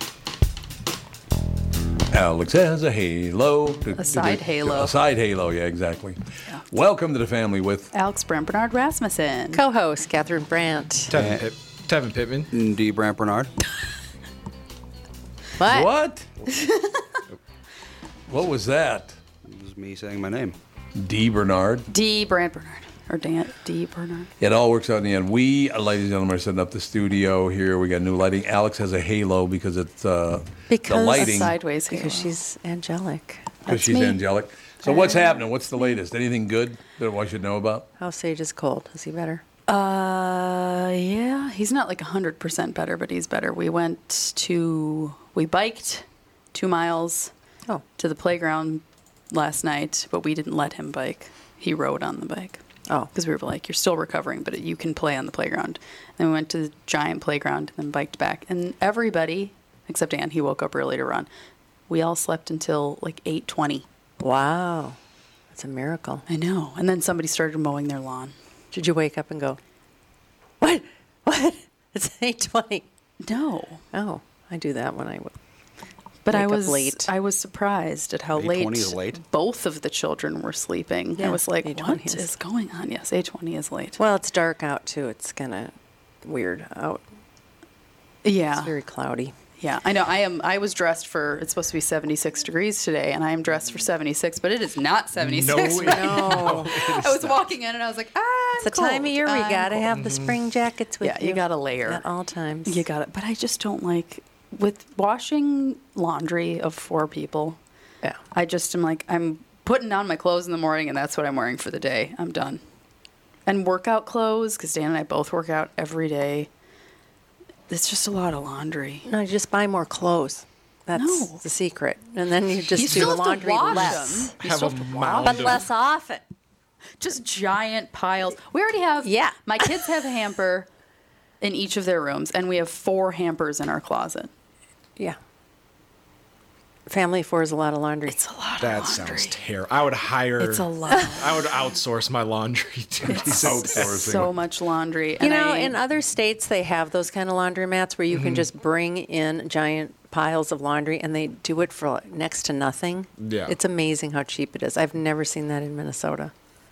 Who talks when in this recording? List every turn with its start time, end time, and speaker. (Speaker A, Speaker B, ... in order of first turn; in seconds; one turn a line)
Speaker A: 2.1-7.9
Speaker B: 3.9-5.0
Speaker B: 7.9-9.6
Speaker C: 9.5-11.1
Speaker D: 11.1-12.5
Speaker E: 11.1-11.5
Speaker E: 12.5-13.5
Speaker C: 15.6-15.9
Speaker A: 15.6-16.3
Speaker B: 16.5-17.0
Speaker A: 18.3-19.2
Speaker E: 19.4-20.6
Speaker A: 21.0-21.9
Speaker B: 21.9-24.3
Speaker A: 24.4-31.5
Speaker C: 30.7-33.5
Speaker B: 31.1-32.3
Speaker B: 33.6-34.2
Speaker A: 33.7-37.9
Speaker C: 34.8-35.2
Speaker C: 38.0-39.4
Speaker B: 39.7-47.3
Speaker B: 48.0-52.6
Speaker B: 53.1-61.3
Speaker B: 61.9-63.8
Speaker C: 64.2-65.0
Speaker C: 65.5-66.2
Speaker B: 66.3-68.3
Speaker C: 68.7-69.6
Speaker C: 70.6-72.8
Speaker B: 73.2-73.8
Speaker C: 73.9-75.3
Speaker B: 76.2-84.0
Speaker C: 76.3-77.1
Speaker E: 78.3-79.2
Speaker C: 81.2-82.3
Speaker C: 84.0-87.0
Speaker B: 88.2-88.7
Speaker C: 88.5-89.3
Speaker B: 89.6-99.9
Speaker D: 95.2-97.4
Speaker C: 95.5-96.9
Speaker C: 98.6-102.8
Speaker D: 99.9-100.4
Speaker B: 101.0-102.0
Speaker B: 102.7-107.6
Speaker B: 108.3-112.6
Speaker B: 113.5-116.5
Speaker B: 117.7-119.1
Speaker C: 119.0-124.3
Speaker B: 120.9-121.4
Speaker B: 122.7-125.6
Speaker D: 123.7-125.7
Speaker C: 125.2-126.2
Speaker B: 127.0-130.7
Speaker C: 129.0-129.7
Speaker B: 131.4-134.3
Speaker C: 136.9-138.2
Speaker B: 138.1-139.4
Speaker D: 138.6-144.0
Speaker B: 140.4-141.5
Speaker B: 143.1-145.8
Speaker A: 143.4-144.3
Speaker C: 145.2-156.3
Speaker D: 148.1-148.5
Speaker D: 153.2-153.6